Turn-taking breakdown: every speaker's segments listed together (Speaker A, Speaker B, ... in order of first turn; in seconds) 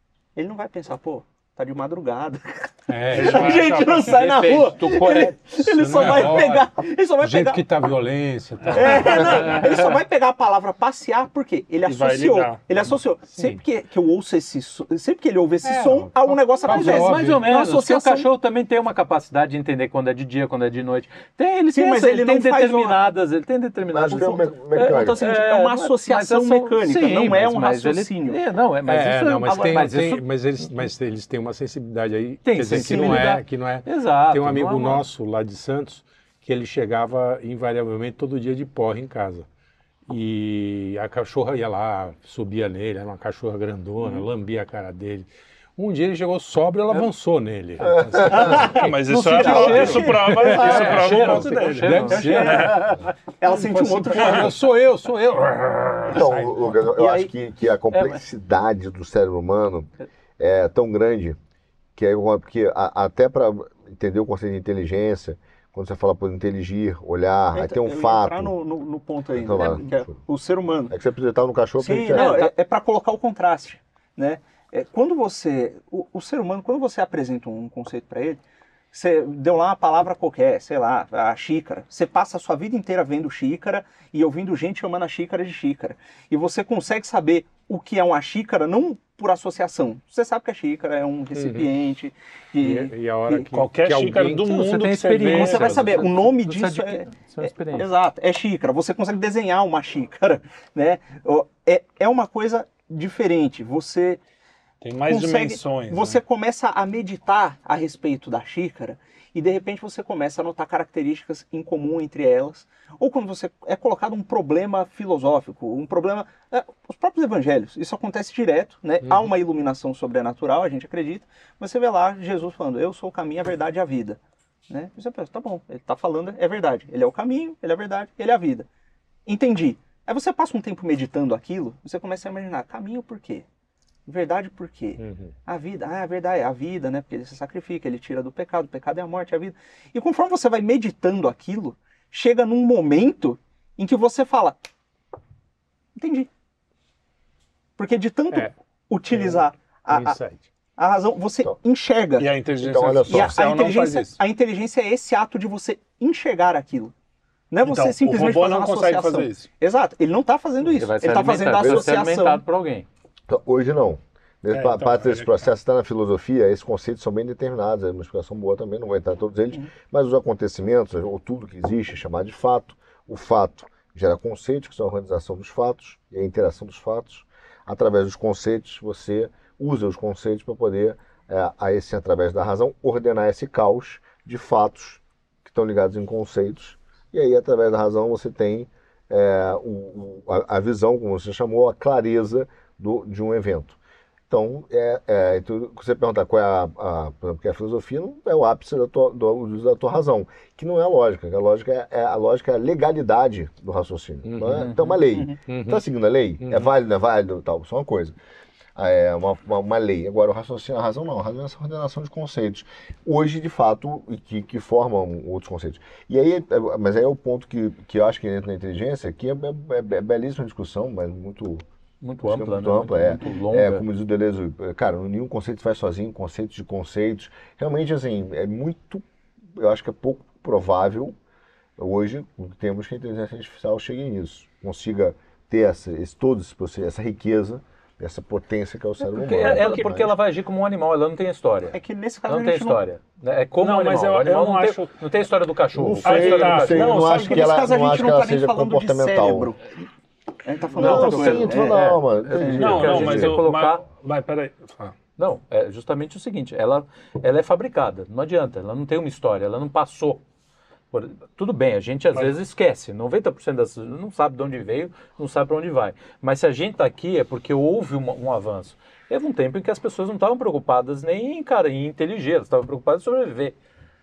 Speaker A: 0.3-7.6, 8.7-18.3, 21.7-23.0, 24.7-28.4, 29.4-29.8, 48.3-51.1, 52.1-54.6, 57.0-57.3, 67.5-70.9, 71.8-78.4, 78.9-93.5, 95.3-104.2, 105.0-128.7, 129.2-133.4, 134.1-144.6, 145.9-146.3, 147.8-150.2, 150.8-152.3, 153.1-156.9, 157.5-162.4, 241.7-242.8, 246.9-249.6, 250.4-252.7
Speaker B: 2.9-3.6, 5.6-6.7, 7.2-9.6, 15.6-17.4, 28.9-39.5, 40.1-52.8, 53.5-56.9, 91.4-91.7, 92.6-94.6, 135.0-135.3, 149.1-150.4, 204.2-205.8, 206.4-206.7
Speaker C: 3.1-4.3, 6.0-6.3, 8.7-9.6, 11.8-12.8, 48.4-52.8, 54.1-54.5, 93.5-96.0, 104.8-106.2, 152.2-154.2, 157.6-159.5, 164.5-165.5, 243.6-244.9, 246.0-247.6, 250.9-251.4, 252.5-254.9
Speaker D: 3.1-5.4, 9.4-9.8, 16.6-30.9, 32.4-35.0, 49.1-52.5, 57.9-58.2, 72.1-72.5, 94.5-97.9, 160.7-162.9, 222.0-223.8, 239.0-247.1, 250.8-253.8, 255.2-260.2, 260.9-273.6
Speaker E: 23.9-25.2, 47.8-48.6, 56.1-61.4, 62.0-68.5, 69.4-70.2, 70.9-72.4, 152.6-153.3, 161.4-161.9, 163.3-193.8, 194.3-208.1, 208.8-221.6, 222.2-229.0, 229.6-231.1, 231.8-240.2, 245.7-249.5, 250.7-253.5